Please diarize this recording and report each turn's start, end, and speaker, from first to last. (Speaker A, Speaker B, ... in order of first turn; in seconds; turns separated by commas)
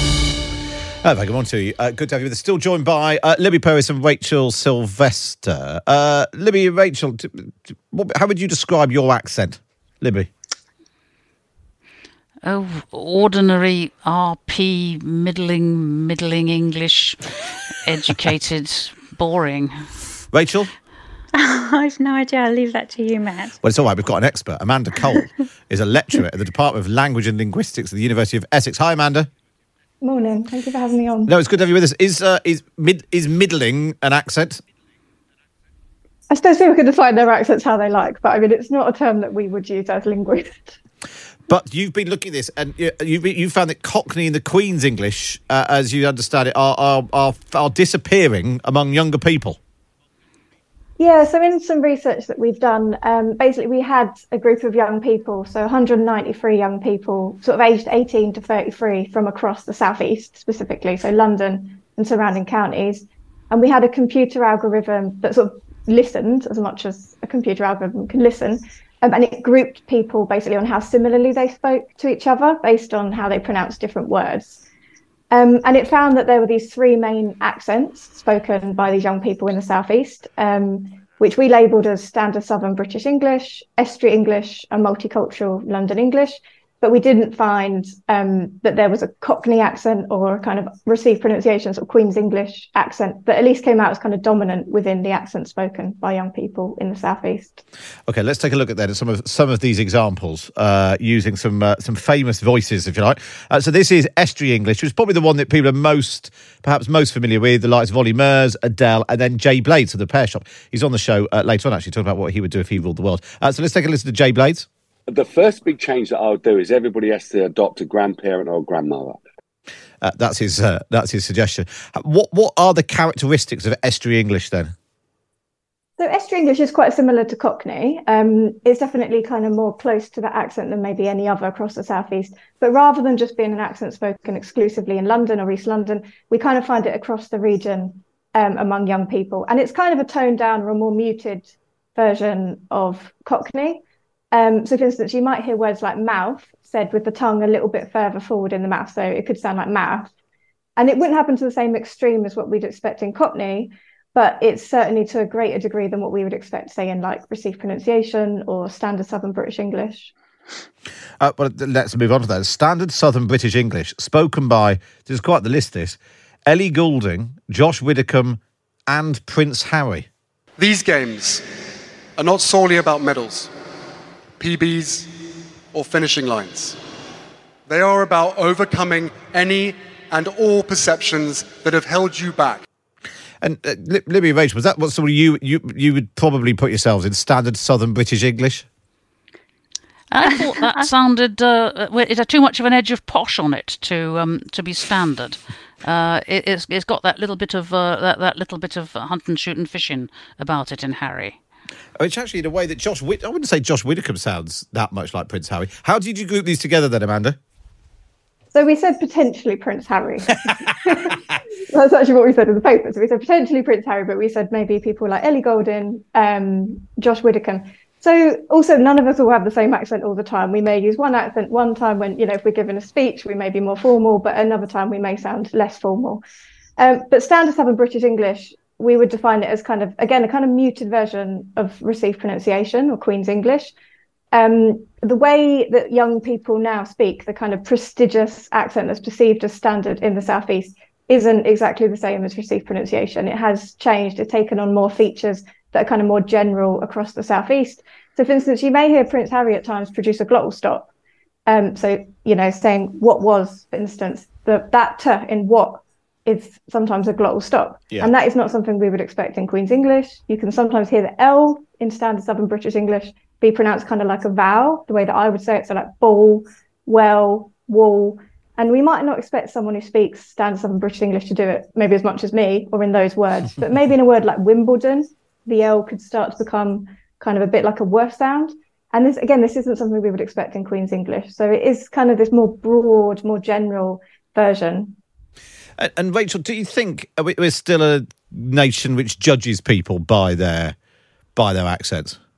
Speaker A: 1.0-10.3, Speaker B: 12.4-19.9, Speaker A: 20.3-20.7, Speaker C: 21.3-23.6, Speaker A: 23.6-29.3, Speaker D: 30.0-31.3, Speaker A: 31.3-34.6, Speaker D: 36.3-40.8, Speaker A: 41.5-49.6, Speaker D: 51.0-74.6, Speaker D: 75.3-97.6, Speaker A: 98.1-114.7, Speaker E: 115.1-119.2, Speaker A: 120.0-124.7, Speaker D: 126.0-150.1, Speaker D: 150.8-160.1, Speaker A: 161.2-170.1, Speaker F: 170.6-171.4, Speaker F: 172.2-173.5, Speaker F: 174.4-175.1, Speaker F: 175.7-176.8, Speaker F: 177.7-182.6, Speaker A: 183.4-188.7, Speaker B: 190.1-201.4, Speaker A: 202.0-207.4, Speaker D: 208.5-211.2, Speaker D: 211.7-226.2, Speaker D: 226.8-233.7, Speaker D: 234.3-250.9, Speaker D: 251.5-285.0, Speaker A: 285.8-290.8, Speaker A: 291.4-292.2